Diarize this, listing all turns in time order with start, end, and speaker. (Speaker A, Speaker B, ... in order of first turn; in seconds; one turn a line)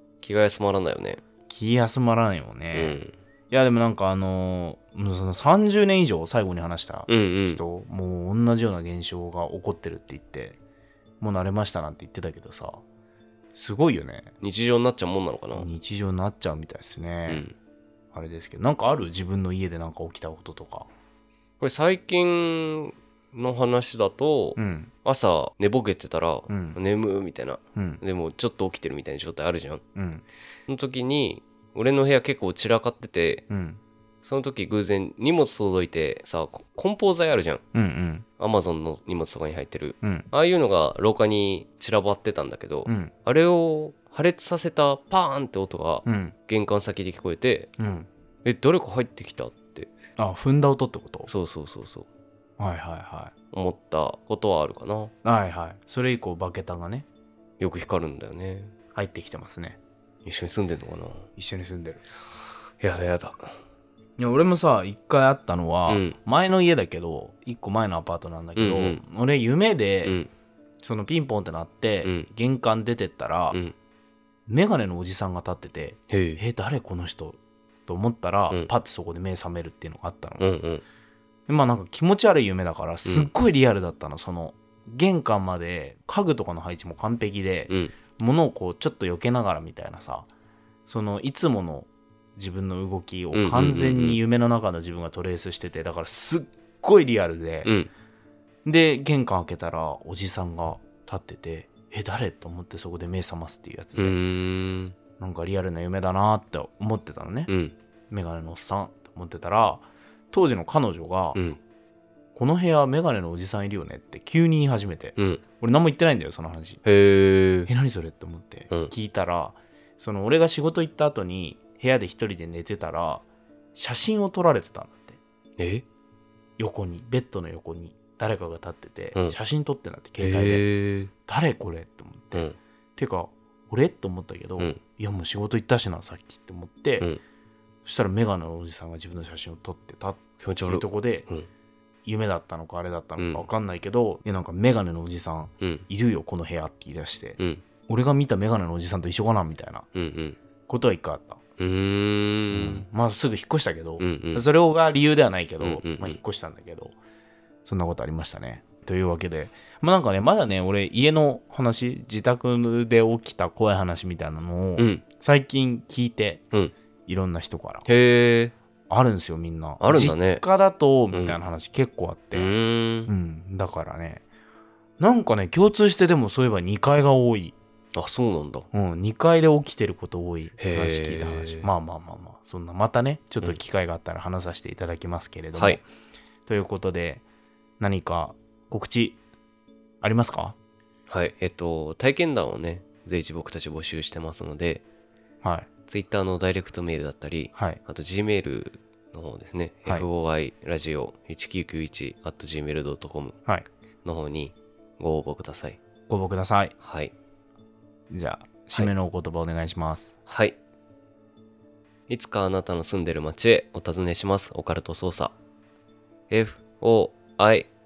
Speaker A: 0.2-1.2
Speaker B: 1.5-10.6
Speaker A: 2.7-3.1
Speaker A: 7.1-7.6
Speaker B: 11.2-12.8
Speaker B: 13.5-14.3
Speaker A: 14.4-15.7
Speaker B: 15.5-17.4
Speaker A: 17.3-17.6
Speaker B: 18.1-20.9
Speaker A: 21.6-29.8
Speaker B: 24.6-24.9
Speaker B: 26.5-26.8
Speaker B: 27.8-28.0
Speaker B: 29.9-30.2
Speaker A: 30.7-33.4
Speaker B: 33.5-33.8
Speaker A: 34.2-37.6
Speaker B: 37.7-38.2
Speaker A: 38.4-47.7
Speaker B: 40.0-40.3
Speaker B: 42.9-43.1
Speaker B: 46.0-46.3
Speaker B: 47.8-48.1
Speaker A: 48.4-49.9
Speaker B: 50.2-51.3
Speaker A: 51.3-52.1
Speaker B: 52.6-53.3
Speaker A: 53.5-55.1
Speaker B: 55.2-57.0
Speaker A: 57.6-58.7
Speaker B: 58.9-59.8
Speaker A: 60.2-61.3
Speaker B: 61.4-62.0
Speaker A: 62.8-63.5
Speaker B: 64.2-70.2
Speaker A: 65.9-66.2
Speaker A: 68.5-69.0
Speaker A: 70.0-70.3
Speaker B: 70.8-73.6
Speaker B: 74.5-80.6
Speaker A: 76.1-76.4
Speaker A: 80.4-80.8
Speaker B: 81.5-90.3
Speaker A: 83.0-83.3
Speaker B: 90.8-97.8
Speaker A: 93.3-94.2
Speaker A: 97.6-97.9
Speaker B: 98.6-104.2
Speaker A: 104.0-105.0
Speaker B: 105.2-107.5
Speaker A: 107.5-107.7
Speaker B: 108.1-111.4
Speaker A: 111.3-111.6
Speaker B: 112.3-116.8
Speaker A: 115.2-115.4
Speaker A: 116.8-117.7
Speaker B: 117.7-125.2
Speaker A: 125.6-125.8
Speaker B: 126.6-137.1
Speaker A: 130.2-131.1
Speaker B: 137.8-141.3
Speaker A: 140.4-141.5
Speaker B: 142.0-149.8
Speaker A: 143.2-143.4
Speaker A: 145.6-145.8
Speaker A: 149.9-150.4
Speaker B: 150.7-151.4
Speaker A: 151.6-152.8
Speaker B: 152.5-156.9
Speaker A: 154.0-154.4
Speaker A: 155.6-156.2
Speaker B: 157.6-166.4
Speaker A: 164.8-165.0
Speaker B: 167.1-167.8
Speaker A: 167.8-168.5
Speaker B: 168.9-172.5
Speaker A: 169.8-170.4
Speaker A: 171.1-171.4
Speaker A: 172.3-173.1
Speaker B: 173.1-174.2
Speaker B: 175.0-177.6
Speaker A: 177.9-178.7
Speaker B: 178.7-185.8
Speaker A: 180.6-181.7
Speaker A: 185.5-185.8
Speaker B: 186.4-187.2
Speaker B: 187.8-189.2
Speaker B: 190.0-190.6
Speaker A: 191.1-194.8
Speaker B: 195.4-195.7
Speaker A: 195.9-203.4
Speaker B: 197.5-197.8
Speaker A: 204.0-205.8
Speaker B: 206.1-206.8
Speaker A: 206.8-207.1
Speaker B: 208.1-210.1
Speaker A: 210.3-210.6
Speaker A: 212.1-215.3
Speaker A: 216.3-217.7